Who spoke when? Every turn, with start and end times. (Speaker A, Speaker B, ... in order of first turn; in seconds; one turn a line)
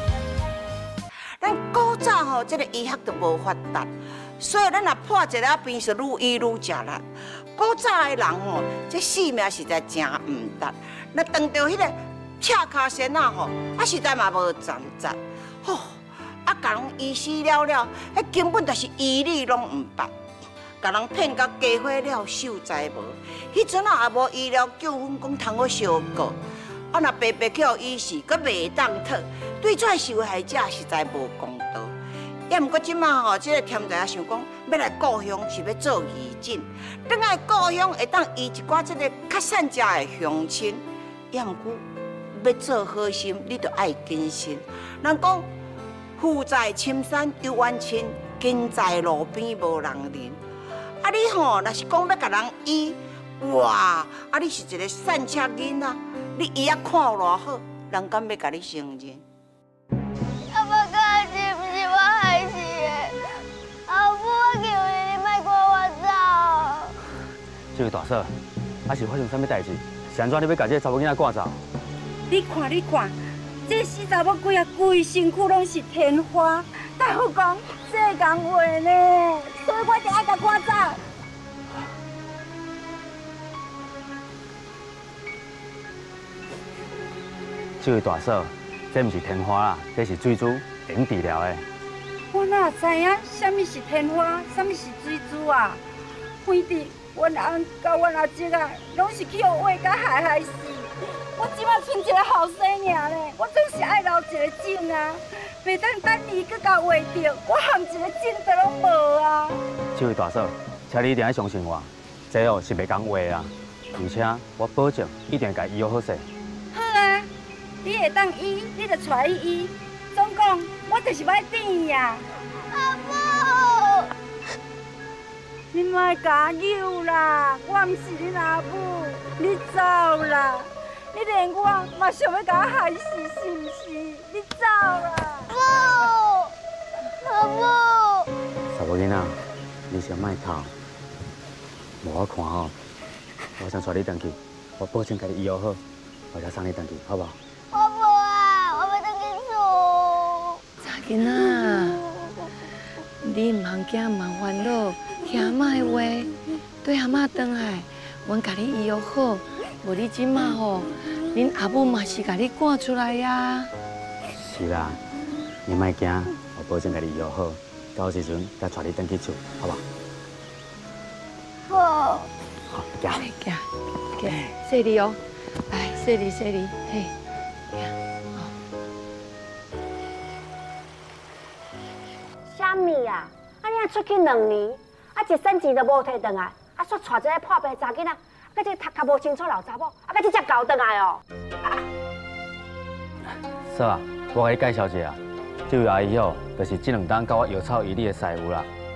Speaker A: 1.4-7.0
Speaker A: 7.5-20.1
Speaker A: 20.8-26.4
Speaker A: 26.9-31.9
Speaker A: 32.5-45.5
Speaker A: 46.2-50.4
Speaker A: 51.0-59.2
Speaker B: 60.5-63.1
Speaker B: 63.9-66.9
Speaker C: 67.7-68.3
Speaker C: 68.9-71.6
Speaker D: 72.3-73.1
Speaker D: 73.7-81.0
Speaker C: 87.8-91.6
Speaker D: 92.3-95.8
Speaker D: 96.4-109.6
Speaker C: 109.9-116.2
Speaker D: 116.7-117.3
Speaker D: 117.8-122.2
Speaker B: 122.7-124.1
Speaker D: 125.7-135.4
Speaker B: 135.5-136.5
Speaker B: 137.2-138.3
Speaker C: 138.7-139.4
Speaker C: 139.9-140.7
Speaker C: 142.0-142.7
Speaker C: 143.6-145.8
Speaker C: 146.3-147.3
Speaker B: 147.7-150.6
Speaker E: 150.8-152.0
Speaker E: 153.2-156.3
Speaker E: 156.8-163.7
Speaker C: 164.3-165.0
Speaker C: 165.7-169.8
Speaker B: 171.7-172.3
Speaker C: 172.7-173.2
Speaker E: 173.1-177.1
Speaker E: 177.7-178.5
Speaker F: 182.5-191.2
Speaker C: 193.7-198.7